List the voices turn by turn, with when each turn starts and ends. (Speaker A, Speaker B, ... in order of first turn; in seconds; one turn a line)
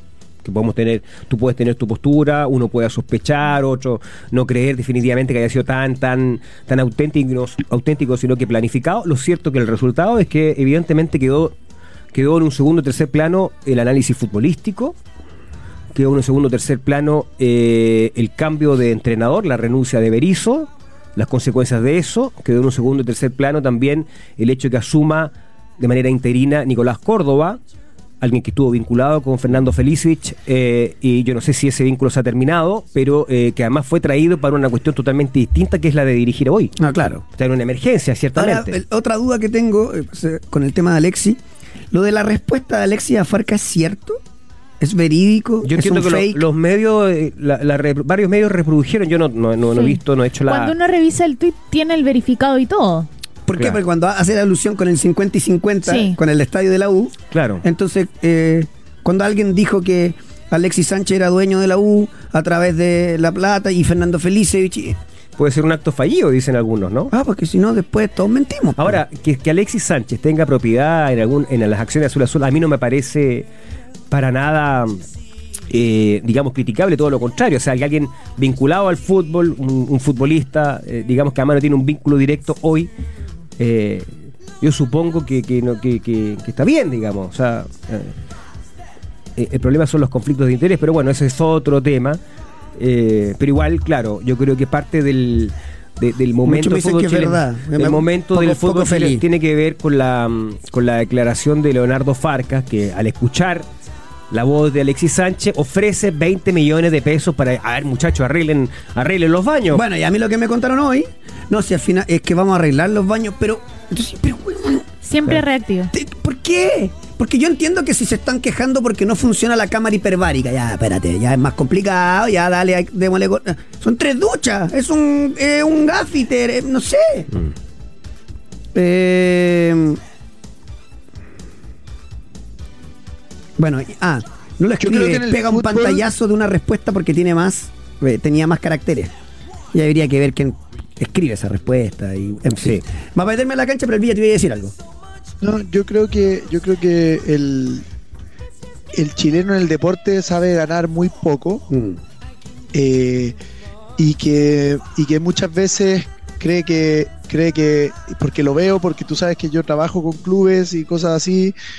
Speaker A: 0.4-11.5
Speaker A: 12.1-14.9
Speaker A: 15.9-27.6
Speaker A: 28.2-36.7
Speaker B: 36.8-37.2
Speaker A: 37.4-38.8
Speaker B: 38.3-41.4
Speaker B: 41.9-44.2
Speaker B: 44.8-46.4
Speaker A: 45.6-50.7
Speaker C: 49.7-53.1
Speaker B: 53.5-65.0
Speaker C: 55.9-56.2
Speaker A: 57.3-57.6
Speaker A: 65.4-67.1
Speaker B: 67.1-69.0
Speaker A: 68.8-73.5
Speaker A: 74.1-75.0
Speaker A: 75.7-82.9
Speaker A: 83.6-84.1
Speaker A: 84.6-88.1
Speaker A: 89.4-92.2
Speaker A: 92.8-103.7
Speaker B: 96.4-99.2
Speaker A: 104.3-109.8
Speaker B: 109.7-114.8
Speaker C: 115.0-115.9
Speaker B: 115.9-127.3
Speaker B: 128.7-130.0
Speaker B: 133.6-139.1
Speaker D: 134.8-136.0
Speaker B: 139.7-144.7
Speaker D: 145.4-147.8
Speaker D: 148.9-151.6
Speaker B: 151.7-152.0
Speaker D: 152.7-153.3
Speaker D: 154.0-161.5